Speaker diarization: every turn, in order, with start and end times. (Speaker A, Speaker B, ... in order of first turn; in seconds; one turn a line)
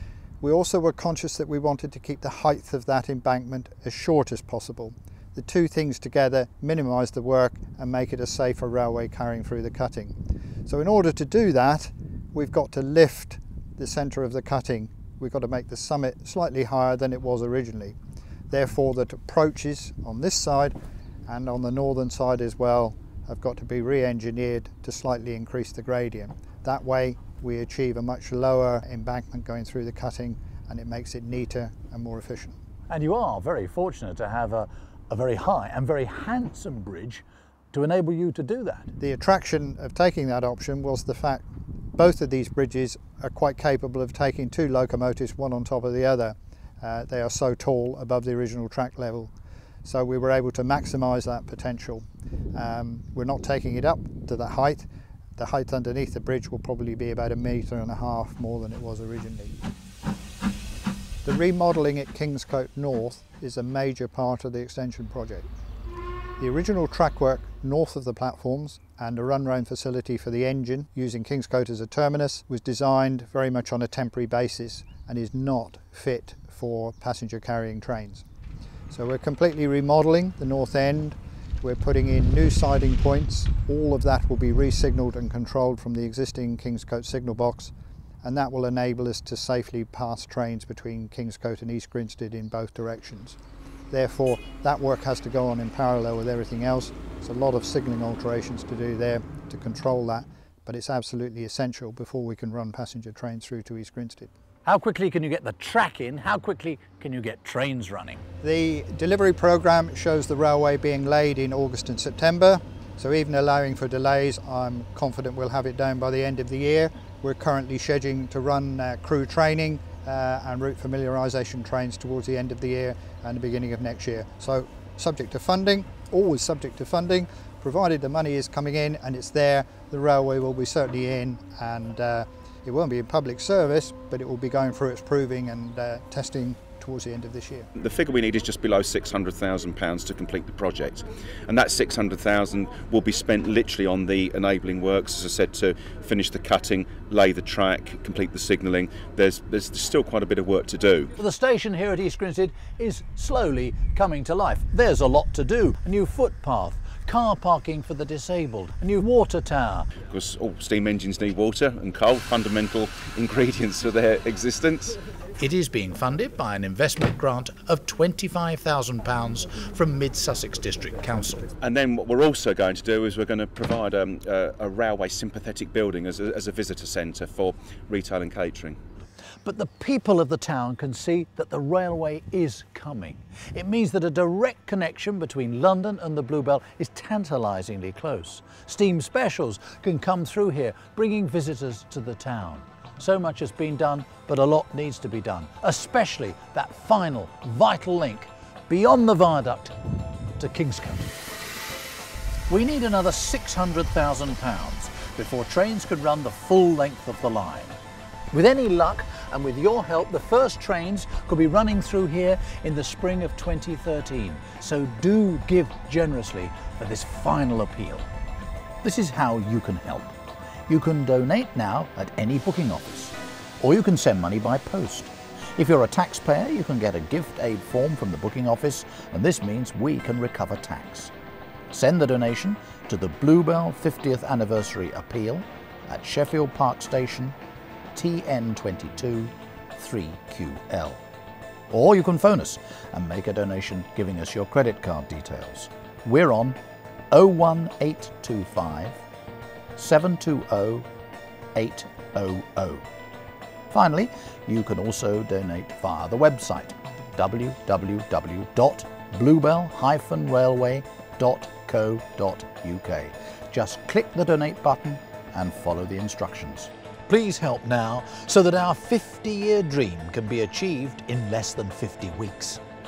Speaker A: 0.4-10.2
Speaker A: 10.7-18.0
Speaker A: 18.5-32.6
Speaker B: 32.9-38.9
Speaker A: 39.0-41.5
Speaker A: 42.0-49.3
Speaker A: 49.9-59.5
Speaker A: 61.2-65.5
Speaker A: 66.4-78.2
Speaker A: 78.9-93.4
Speaker A: 93.9-104.3
Speaker B: 104.7-108.2
Speaker A: 108.4-137.7
Speaker C: 137.8-151.1
Speaker B: 151.2-159.9
Speaker C: 160.1-165.0
Speaker B: 165.4-171.5
Speaker C: 171.6-178.8
Speaker B: 179.4-199.7
Speaker B: 200.4-201.1
Speaker B: 202.5-207.8
Speaker B: 208.3-218.1
Speaker B: 218.8-220.2
Speaker B: 220.7-231.1
Speaker B: 231.7-237.4
Speaker B: 237.9-241.0
Speaker B: 241.7-246.6
Speaker B: 247.1-249.0
Speaker B: 249.8-250.9
Speaker B: 251.6-252.8
Speaker B: 253.7-272.6